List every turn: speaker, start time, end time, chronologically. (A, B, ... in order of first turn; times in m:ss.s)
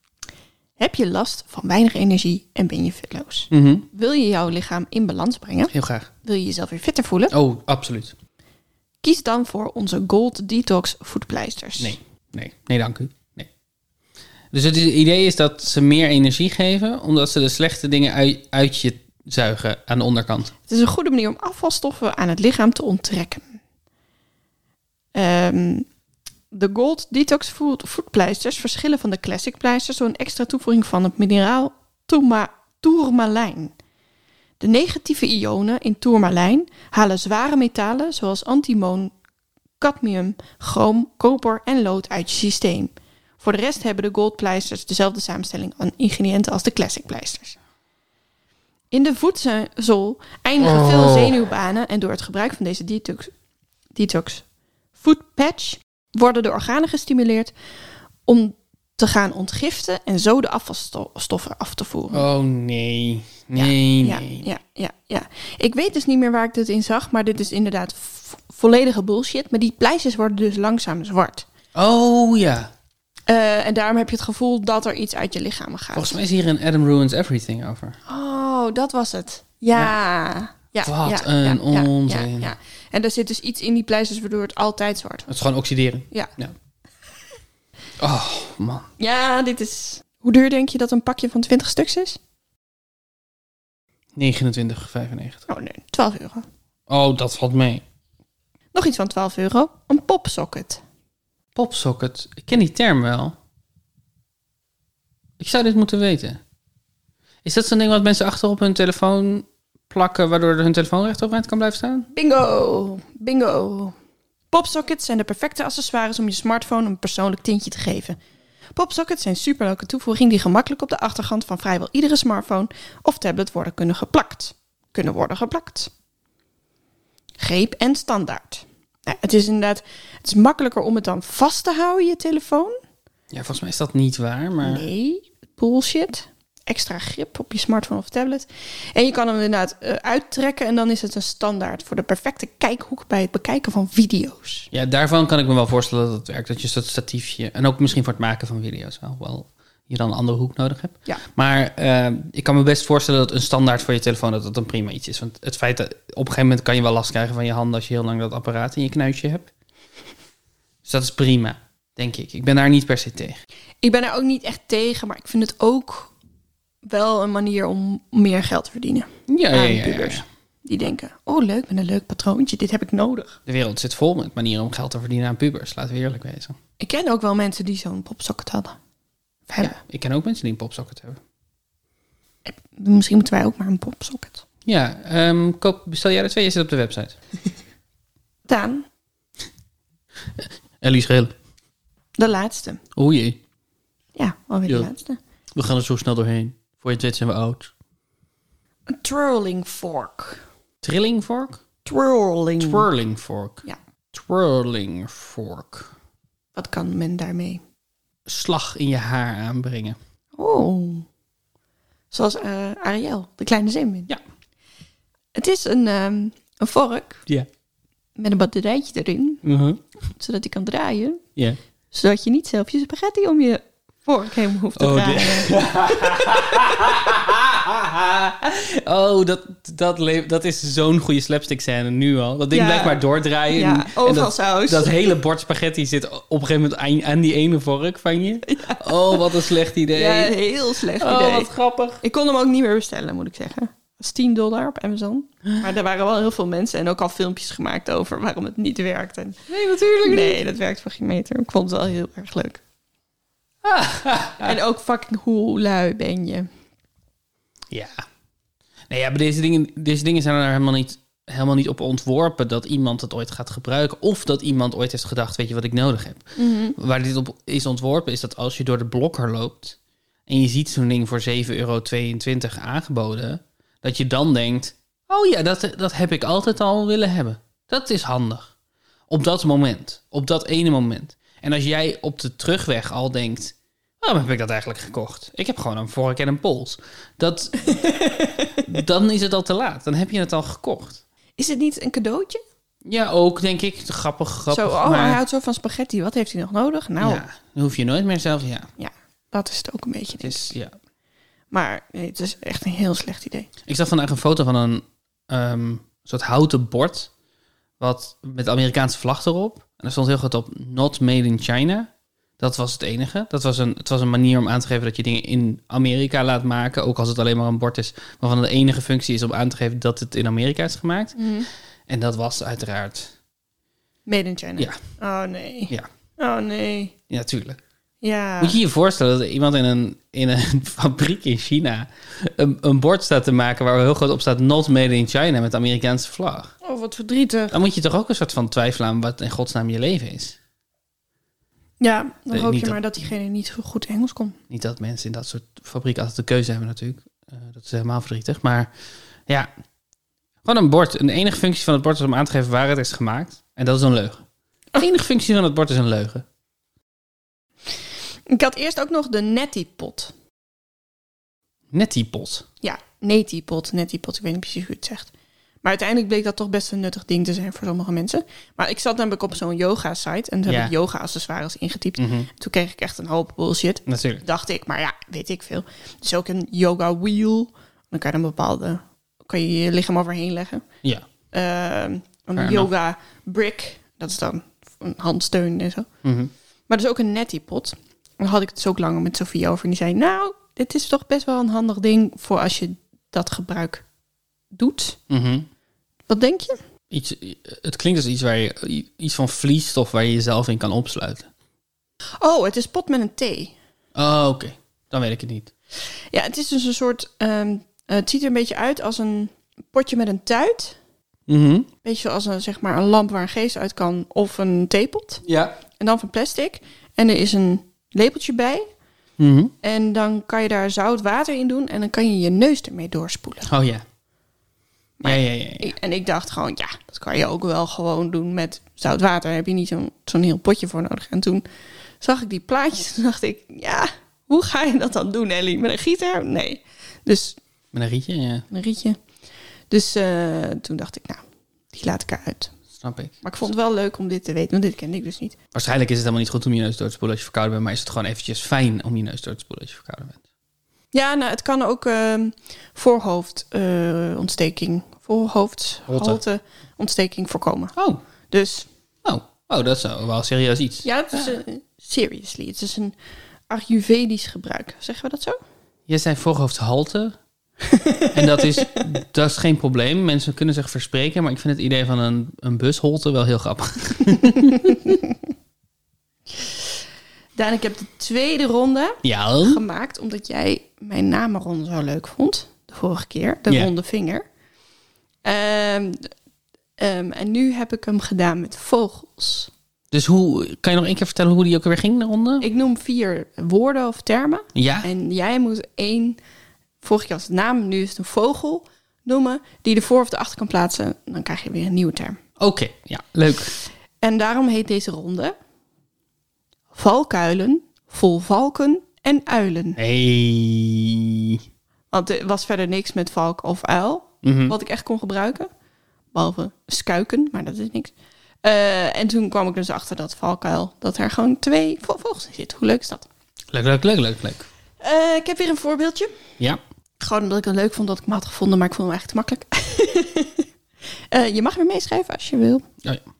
0:00.8-0:05.7 A
0:03.5-0:03.9 B
0:05.7-0:06.1 B
0:06.2-0:07.3 A
0:07.3-0:08.1 B
0:09.0-0:12.0 A
0:11.8-0:13.5 B
0:14.5-0:20.5 B
0:20.7-0:23.6 A
0:25.1-0:25.9 A
0:26.5-0:33.7 A
0:34.6-0:39.1 A
0:39.8-0:47.6 A
0:48.9-0:53.3 A
0:50.6-0:51.4 B
0:53.9-0:54.4 A
0:55.0-0:57.5 A
0:58.3-1:02.2 A
1:02.1-1:04.5 B
1:03.6-1:11.5 A
1:11.7-1:12.7 B
1:13.3-1:16.2 A
1:15.9-1:18.0 B
1:18.0-1:25.3 A
1:20.8-1:22.5 B
1:25.3-1:26.5 B
1:28.0-1:28.9 B
1:29.0-1:32.2 A
1:34.2-1:35.5 B
1:35.5-1:36.5 A
1:36.9-1:37.8 B
1:38.7-1:40.8 A
1:41.6-1:43.4 B
1:45.4-1:46.4 B
1:47.4-1:52.1 B
1:52.1-1:53.9 A
1:54.5-1:58.2 A
1:58.7-2:05.9 A
2:07.4-2:12.8 A
2:13.3-2:14.9 B
2:14.6-2:24.7 A
2:24.7-2:39.5 B
2:40.8-2:43.4 B
2:43.8-2:46.1 A
2:46.8-2:53.4 A
2:49.3-2:50.2 B
2:53.4-2:56.6 B
2:56.8-2:58.8 A
2:59.5-2:59.7 A
2:59.6-3:01.2 B
3:02.4-3:04.4 A
3:04.6-3:07.2 B
3:08.4-3:08.9 A
3:10.4-3:11.3 B
3:12.2-3:12.8 A
3:12.9-3:13.4 B
3:14.2-3:15.2 A
3:15.6-3:17.7 B
3:18.9-3:20.4 A
3:20.8-3:21.6 B
3:21.8-3:22.9 A
3:22.6-3:25.9 B
3:26.5-3:27.6 A
3:28.3-3:30.0 B
3:30.4-3:31.0 A
3:32.1-3:34.1 A
3:35.3-3:37.2 A
3:38.2-3:39.4 A
3:39.4-3:39.8 B
3:40.1-3:41.2 A
3:41.9-3:46.7 A
3:44.8-4:00.4 B
3:52.5-3:53.0 A
3:53.5-3:54.9 A
3:58.5-4:01.5 A
4:00.9-4:02.0 B
4:02.0-4:12.6 A
4:09.5-4:10.4 B
4:13.6-4:14.6 B
4:14.4-4:16.5 A
4:17.7-4:18.0 B
4:18.9-4:38.5 B
4:26.4-4:26.8 A
4:39.1-4:47.8 B
4:47.6-4:48.6 A
4:48.6-4:51.0 B
4:51.4-4:52.4 A
4:52.8-4:55.2 B
4:54.5-4:57.2 A
4:57.0-4:58.7 B
4:58.8-5:00.5 A
5:00.2-5:00.7 B
5:01.5-5:03.5 A
5:03.7-5:07.1 B
5:07.8-5:21.2 B
5:21.2-5:21.5 A
5:21.9-5:23.1 B
5:24.0-5:26.9 A
5:27.1-5:27.6 B
5:28.0-5:28.6 A
5:28.4-5:36.5 B
5:36.6-5:37.6 A
5:37.5-5:40.4 B
5:41.8-5:44.4 A
5:42.3-5:42.8 B
5:44.5-5:48.7 B
5:50.4-5:54.2 B
5:54.8-5:56.2 B
5:58.3-6:00.1 A
6:01.7-6:02.4 B
6:02.6-6:05.1 A
6:05.6-6:20.6 A
6:10.5-6:10.7 B
6:12.0-6:12.3 B
6:13.9-6:14.2 B
6:21.3-6:25.9 A
6:22.4-6:22.7 B
6:26.0-6:26.3 B
6:26.7-6:33.8 A
6:34.5-6:35.0 A
6:35.1-6:35.5 B
6:36.1-6:36.6 A
6:36.9-6:41.3 B
6:42.2-6:43.5 A
6:43.9-6:45.5 B
6:46.1-6:50.8 A
6:51.3-6:51.7 B
6:51.8-6:58.7 A
6:55.2-6:55.6 B
6:59.2-6:59.5 B
6:59.6-7:03.5 A
7:03.4-7:03.8 B
7:05.0-7:11.4 A
7:05.0-7:05.7 B
7:12.0-7:17.4 A
7:17.7-7:18.4 B
7:18.5-7:19.0 A
7:19.7-7:22.5 A
7:22.7-7:23.2 B
7:23.2-7:25.4 A
7:25.5-7:30.2 B
7:30.9-7:37.7 A
7:35.9-7:36.2 B
7:37.8-7:38.0 B
7:38.3-7:38.7 A
7:39.0-7:41.3 B
7:40.8-7:42.9 A
7:43.5-7:45.4 A
7:45.9-7:47.2 B
7:47.6-7:48.6 A
7:48.1-7:55.0 B
7:54.4-7:55.1 A
7:57.4-8:04.2 A
7:59.0-7:59.6 B
8:05.2-8:06.1 A
8:06.8-8:09.5 A
8:09.9-8:12.5 B
8:12.4-8:16.2 A
8:14.5-8:14.9 B
8:16.8-8:22.2 A
8:22.4-8:23.6 B
8:24.0-8:25.3 A
8:26.7-8:29.8 A
8:29.8-8:31.4 B
8:31.9-8:35.5 A
8:34.2-8:34.6 B
8:36.1-8:43.1 A
8:43.5-8:44.5 B
8:44.8-8:46.1 A
8:47.0-8:50.5 A
8:51.1-8:52.7 A